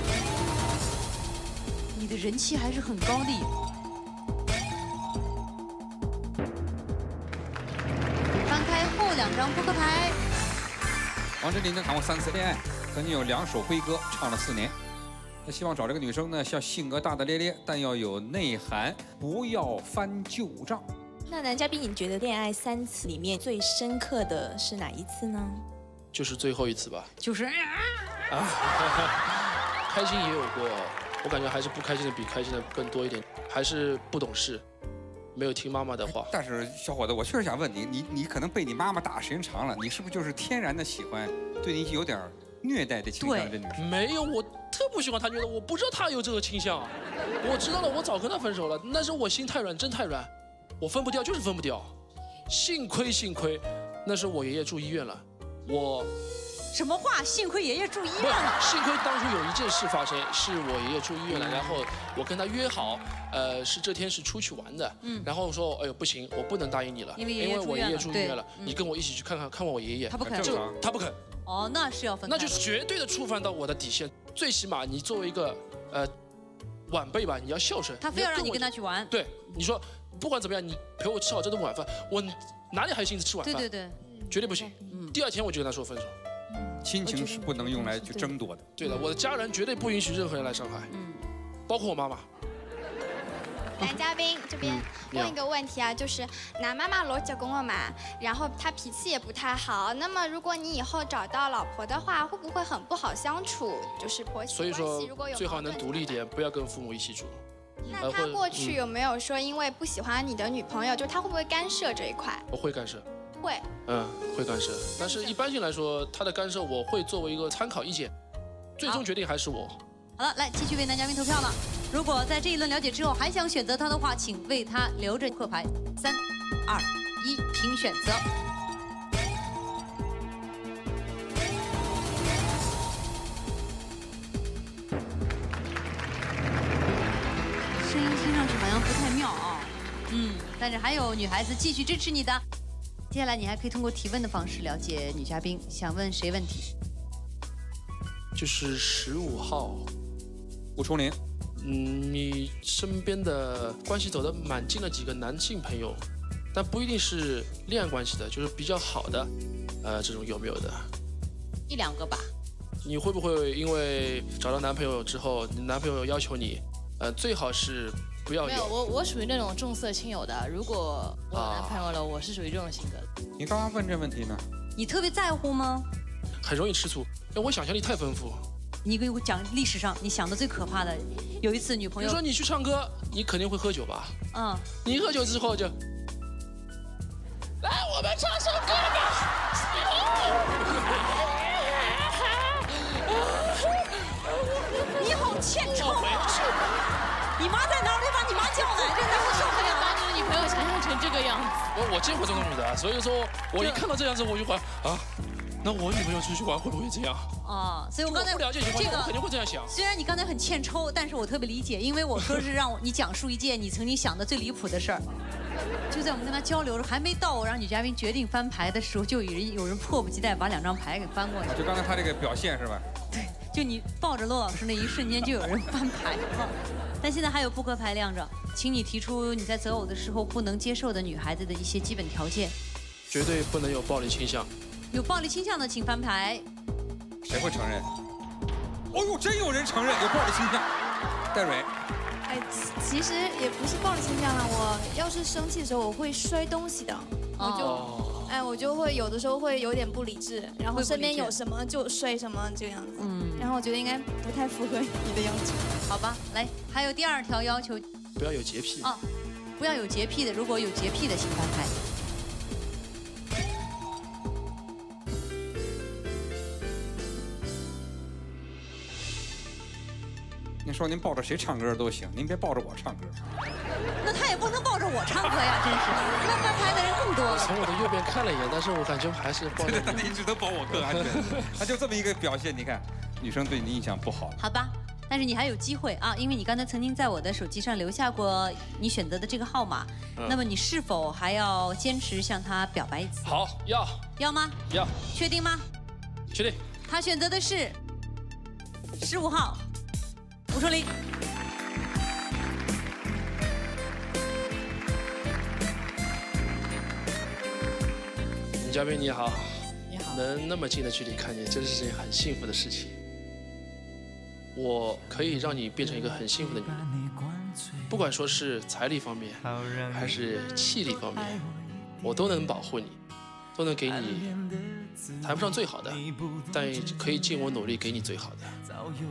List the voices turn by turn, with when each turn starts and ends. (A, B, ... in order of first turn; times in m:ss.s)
0:01.9-0:03.5 A
0:08.4-0:10.2 A
0:11.4-0:14.7 B
0:15.4-0:20.8 B
0:21.3-0:25.6 C
0:26.1-0:27.1 D
0:27.2-0:28.0 A
0:28.3-0:34.6 D
0:35.3-0:36.3 D
0:36.2-0:43.8 B
0:43.2-0:43.5 A
0:43.8-0:51.9 D
0:52.5-0:56.1 D
0:56.7-0:58.6 A
0:58.2-1:11.2 D
1:05.0-1:05.3 A
1:07.2-1:08.8 A
1:10.1-1:10.6 A
1:10.2-1:10.8 B
1:11.4-1:12.6 A
1:12.3-1:16.1 D
1:16.9-1:23.7 D
1:18.0-1:19.1 A
1:23.4-1:24.0 A
1:24.3-1:26.1 D
1:24.9-1:25.1 A
1:26.8-1:28.6 B
1:28.8-1:30.9 D
1:30.9-1:31.2 A
1:31.7-1:32.2 D
1:33.8-1:46.2 E
1:34.6-1:35.3 D
1:44.5-1:47.4 D
1:47.8-1:52.4 E
1:48.0-1:48.8 D
1:52.5-1:53.0 D
1:53.4-1:53.7 E
1:53.8-1:58.1 D
1:55.0-1:55.3 E
1:58.8-1:59.8 D
2:00.2-2:08.2 A
2:17.8-2:22.4 A
2:23.1-2:26.7 A
2:28.4-2:29.9 D
2:30.8-2:31.2 B
2:31.6-2:36.0 D
2:36.5-2:39.3 D
2:39.8-2:40.9 D
2:41.7-2:42.3 F
2:42.8-2:48.7 D
2:48.4-2:53.1 F
2:51.3-2:51.8 D
2:53.4-2:54.4 B
2:54.8-2:55.9 A
2:56.4-2:58.4 D
2:58.8-3:02.2 A
3:02.0-3:04.1 D
3:04.3-3:04.6 A
3:04.8-3:05.7 D
3:15.0-3:16.4 A
3:15.8-3:16.5 D
3:17.4-3:20.2 A
3:19.8-3:21.5 F
3:21.7-3:25.1 D
3:25.6-3:27.3 D
3:27.4-3:29.1 A
3:28.0-3:29.7 D
3:29.7-3:35.0 A
3:35.9-3:41.6 A
3:41.5-3:42.8 B
3:43.1-3:52.5 A
3:53.1-3:54.5 D
3:54.9-3:56.4 A
3:57.2-3:57.9 B
3:58.9-4:00.7 B
4:01.3-4:01.7 B
4:07.4-4:07.9 A
4:07.4-4:07.7 G
4:07.6-4:08.3 D
4:08.3-4:12.8 G
4:10.7-4:11.4 A
4:12.9-4:13.5 A
4:13.4-4:14.1 G
4:15.9-4:17.8 A
4:18.2-4:18.9 D
4:19.6-4:21.7 A
4:30.6-4:33.1 B
4:34.0-4:37.6 A
4:37.3-4:41.5 D
4:39.5-4:44.4 B
4:44.4-4:53.2 A
4:53.2-4:54.0 D
4:54.2-4:54.6 A
4:54.7-4:55.0 D
4:55.1-4:55.6 A
4:56.3-4:56.6 D
4:56.9-4:57.8 A
4:59.0-4:59.6 A
5:00.5-5:00.9 A
5:08.6-5:12.9 D
5:14.6-5:16.8 D
5:17.9-5:21.4 D
5:22.0-5:23.0 D
5:23.6-5:24.4 D
5:25.2-5:28.5 D